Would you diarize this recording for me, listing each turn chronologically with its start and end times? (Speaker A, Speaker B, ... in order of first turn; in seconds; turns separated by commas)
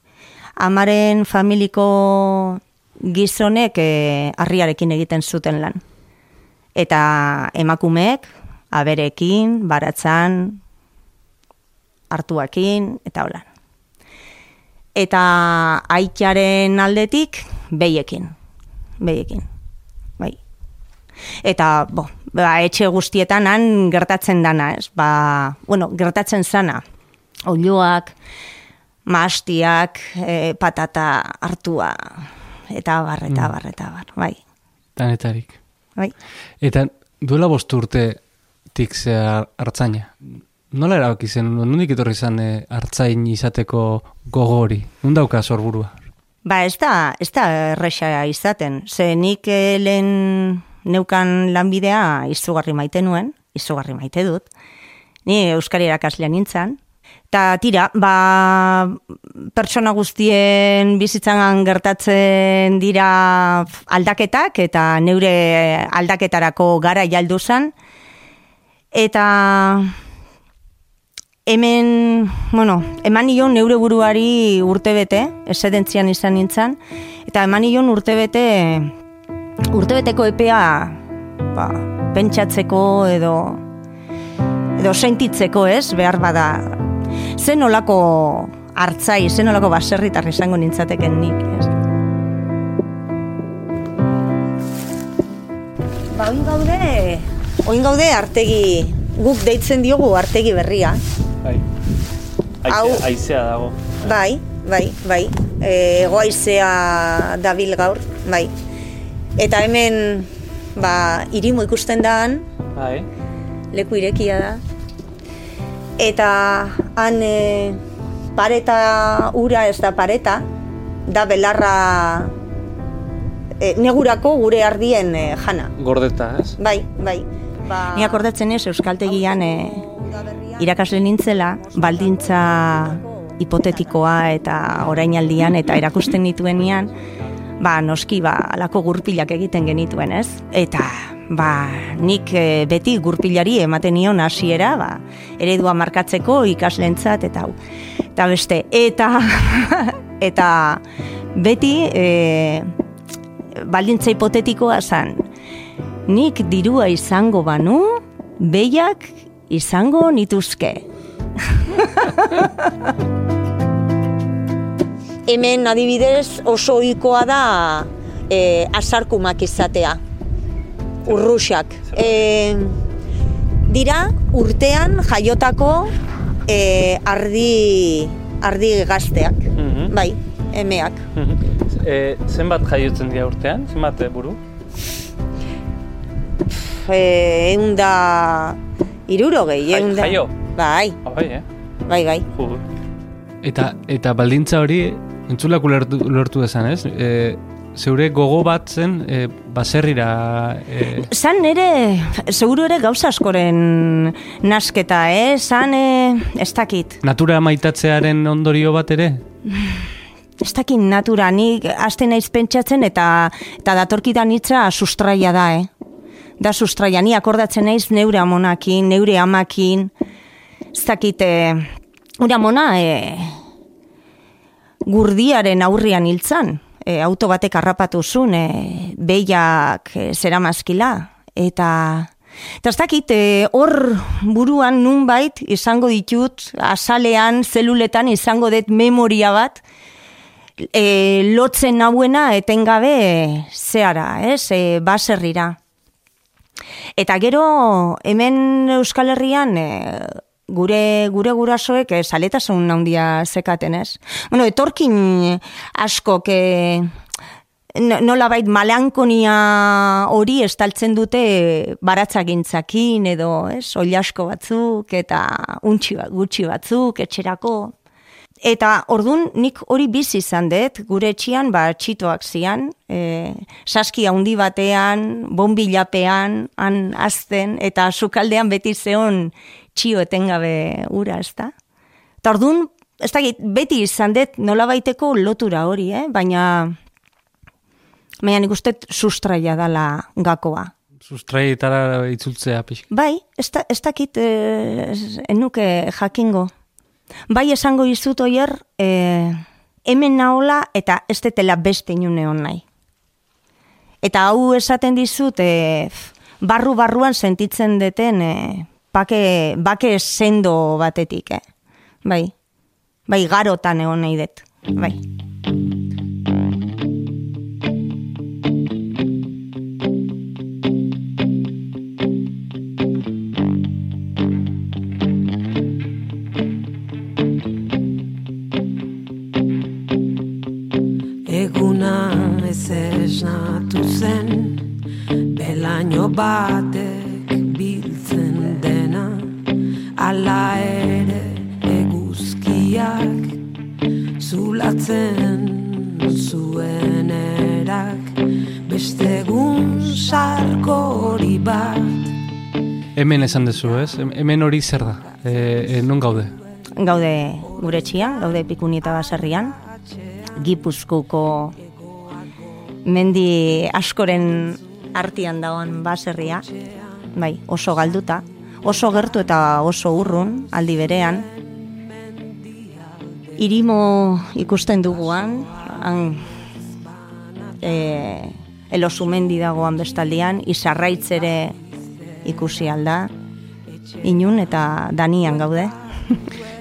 Speaker A: 0.6-5.8, Speaker A: 6.8-10.6, Speaker A: 12.1-13.5, Speaker A: 14.9-18.3, Speaker A: 19.0-19.5, Speaker A: 21.4-26.8, Speaker A: 27.5-28.1, Speaker A: 29.1-34.4, Speaker B: 35.0-35.6, Speaker B: 36.6-38.2, Speaker B: 38.7-46.0, Speaker A: 46.5-54.5, Speaker A: 55.3-56.8, Speaker A: 57.3-67.7, Speaker A: 68.9-70.0, Speaker A: 71.5-79.0, Speaker A: 79.7-83.6, Speaker A: 84.8-86.8, Speaker A: 87.3-91.7, Speaker A: 96.1-101.0, Speaker B: 102.6-104.0, Speaker A: 102.7-103.1, Speaker A: 104.0-108.5, Speaker A: 109.4-112.5, Speaker B: 112.8-113.1, Speaker A: 113.7-114.6, Speaker A: 116.0-117.8, Speaker A: 118.3-120.5, Speaker A: 121.1-122.3, Speaker A: 123.6-125.7, Speaker B: 125.8-126.6, Speaker A: 126.6-136.9, Speaker A: 137.6-147.6, Speaker A: 148.2-150.8, Speaker A: 151.3-152.7, Speaker A: 153.6-155.3, Speaker A: 156.1-160.8, Speaker A: 161.4-162.7, Speaker A: 165.3-170.0, Speaker A: 171.1-172.8, Speaker A: 173.7-175.9, Speaker A: 176.5-181.1, Speaker B: 179.6-179.9, Speaker B: 181.2-184.4, Speaker A: 186.5-191.0, Speaker B: 189.7-190.3, Speaker B: 191.0-191.5, Speaker A: 191.9-192.3, Speaker B: 192.3-192.6, Speaker B: 193.4-201.1, Speaker A: 200.9-207.0, Speaker B: 207.0-209.2, Speaker A: 209.5-209.9, Speaker A: 210.4-215.7, Speaker A: 216.4-219.9, Speaker A: 220.7-223.4, Speaker A: 224.9-239.6, Speaker A: 240.6-245.6, Speaker A: 247.0-256.9, Speaker A: 257.8-267.8, Speaker A: 268.4-281.5, Speaker A: 282.2-286.8, Speaker A: 288.2-290.7, Speaker B: 291.0-292.8, Speaker A: 292.9-296.5, Speaker A: 297.3-302.6, Speaker A: 304.0-311.4, Speaker A: 312.1-312.3, Speaker A: 313.1-315.0, Speaker C: 331.2-339.4, Speaker C: 340.0-343.4, Speaker C: 344.2-352.2, Speaker B: 352.9-356.4, Speaker A: 356.8-359.6, Speaker A: 360.4-361.6, Speaker A: 362.9-366.5, Speaker A: 367.1-371.3, Speaker A: 373.4-376.4, Speaker A: 377.6-381.6, Speaker A: 382.2-383.1, Speaker A: 384.0-386.2